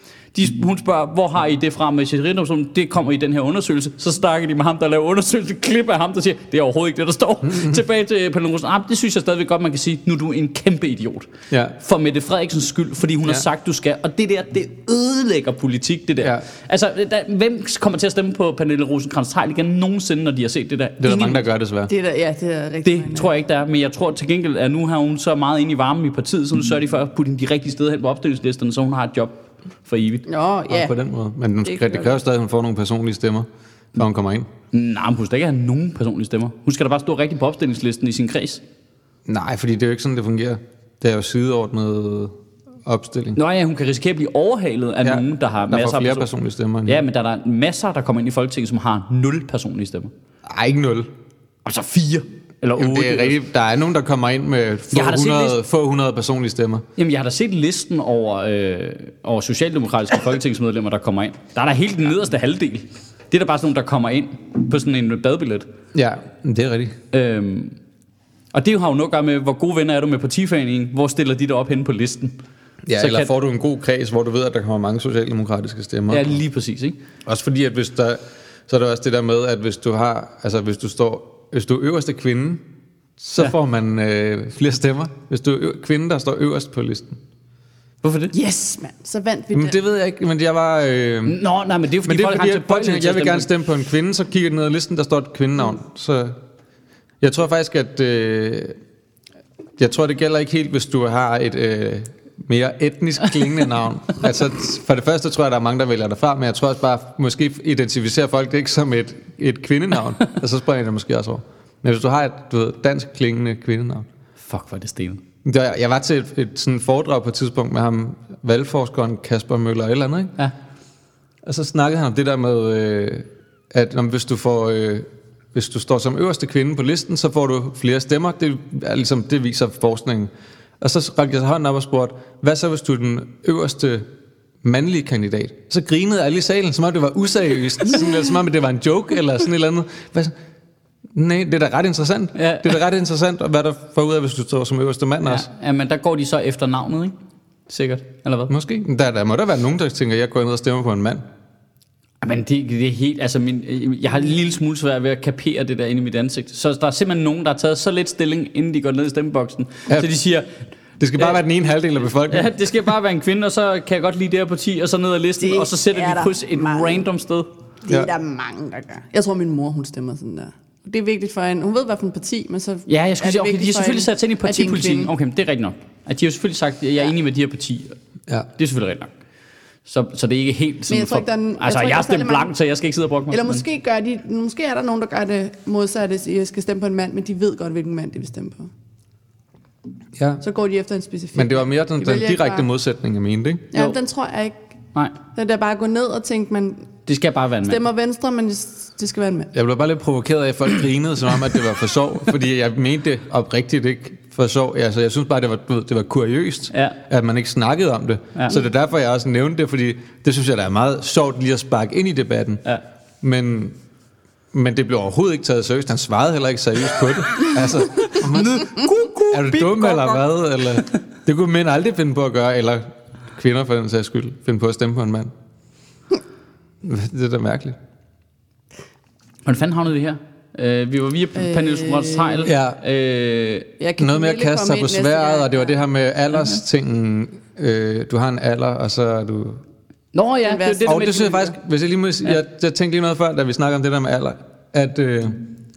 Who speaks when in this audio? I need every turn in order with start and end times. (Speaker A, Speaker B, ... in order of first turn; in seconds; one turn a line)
Speaker A: 0.3-21.4
Speaker B: 7.5-7.8
Speaker B: 11.5-11.7
Speaker B: 21.0-21.9
Speaker C: 21.9-23.3
Speaker A: 22.8-30.2
Speaker C: 30.3-30.9
Speaker B: 30.7-34.5
Speaker C: 31.6-32.2
Speaker A: 34.7-38.6
Speaker B: 39.2-43.4
Speaker A: 43.3-46.3
Speaker B: 45.0-47.0
Speaker A: 46.9-50.1
Speaker B: 50.5-51.1
Speaker A: 51.6-53.4
Speaker B: 52.7-56.8
Speaker A: 54.9-55.6
Speaker A: 57.0-65.7
Speaker B: 65.9-66.9
Speaker A: 67.1-67.8
Speaker A: 68.5-72.3
Speaker B: 72.9-76.3
Speaker A: 73.0-73.3
Speaker A: 76.1-77.0
Speaker B: 77.2-82.6
Speaker B: 83.2-87.2
Speaker A: 88.0-88.3
Speaker C: 88.3-89.8
Speaker B: 89.5-91.4
Speaker A: 91.2-93.5
Speaker B: 92.0-96.4
Speaker B: 97.2-98.8
Speaker B: 99.8-114.1
Speaker A: 114.4-115.2
Speaker B: 115.4-120.3
Speaker B: 121.4-134.1
Speaker B: 134.6-140.3
Speaker B: 141.1-145.5
Speaker A: 142.3-142.8
Speaker A: 145.2-147.1
Speaker A: 147.7-148.5
Speaker B: 148.5-151.2
Speaker A: 152.2-160.6
Speaker B: 161.0-162.5
Speaker A: 162.2-167.5
Speaker C: 165.4-167.1
Speaker C: 167.8-175.1
Speaker A: 172.9-178.0
Speaker A: 178.6-179.1
Speaker A: 179.8-183.6
Speaker C: 180.9-182.5
Speaker C: 183.3-188.7
Speaker B: 190.2-190.4
Speaker C: 190.4-192.7
Speaker B: 191.3-193.7
Speaker C: 193.7-194.6
Speaker C: 195.3-196.9
Speaker A: 197.1-197.8
Speaker C: 197.6-199.5
Speaker B: 199.5-212.6
Speaker A: 206.7-207.0
Speaker A: 208.3-208.6
Speaker B: 213.2-213.8
Speaker B: 214.5-225.3
Speaker A: 218.2-220.2
Speaker B: 226.8-227.8
Speaker A: 229.4-233.7
Speaker C: 231.3-232.5
Speaker B: 232.4-232.8
Speaker C: 233.8-235.7
Speaker B: 234.0-239.6
Speaker A: 240.1-241.5
Speaker C: 240.4-241.4
Speaker B: 240.8-245.5